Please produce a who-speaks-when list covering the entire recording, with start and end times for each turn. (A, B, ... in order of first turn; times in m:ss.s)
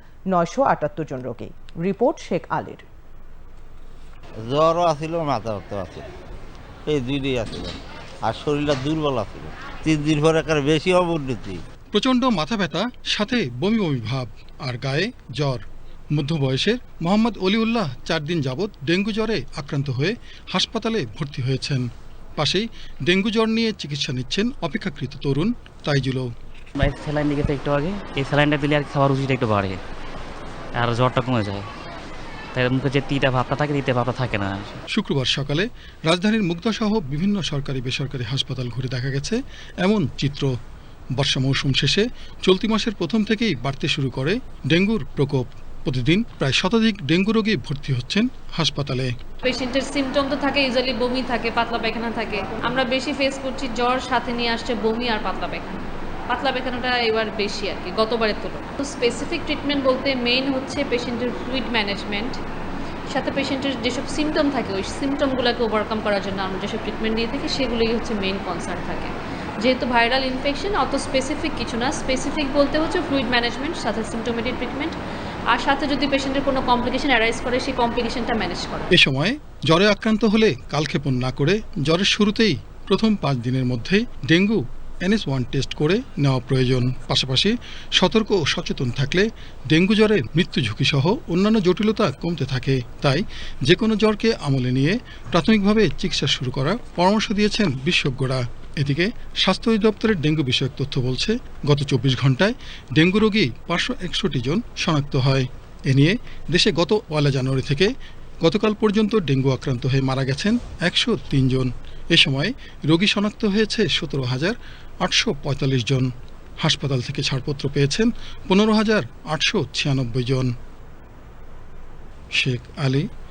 0:00.3-0:02.8 A
0:04.4-0:06.1 B
0:06.9-0:11.6 B
0:11.9-0:15.6 C
0:16.1-0:21.9 C
0:22.4-0:26.3 C
0:26.8-0:29.8 D
0:30.7-0:31.7 D
0:32.5-0:34.8 D
0:34.9-0:40.5 C
0:41.2-0:49.1 C
0:49.4-1:02.4 E
1:03.1-1:15.0 E
1:15.5-1:18.9 E
1:18.9-1:47.9 C
1:48.4-2:00.5 C
2:02.4-2:03.1 C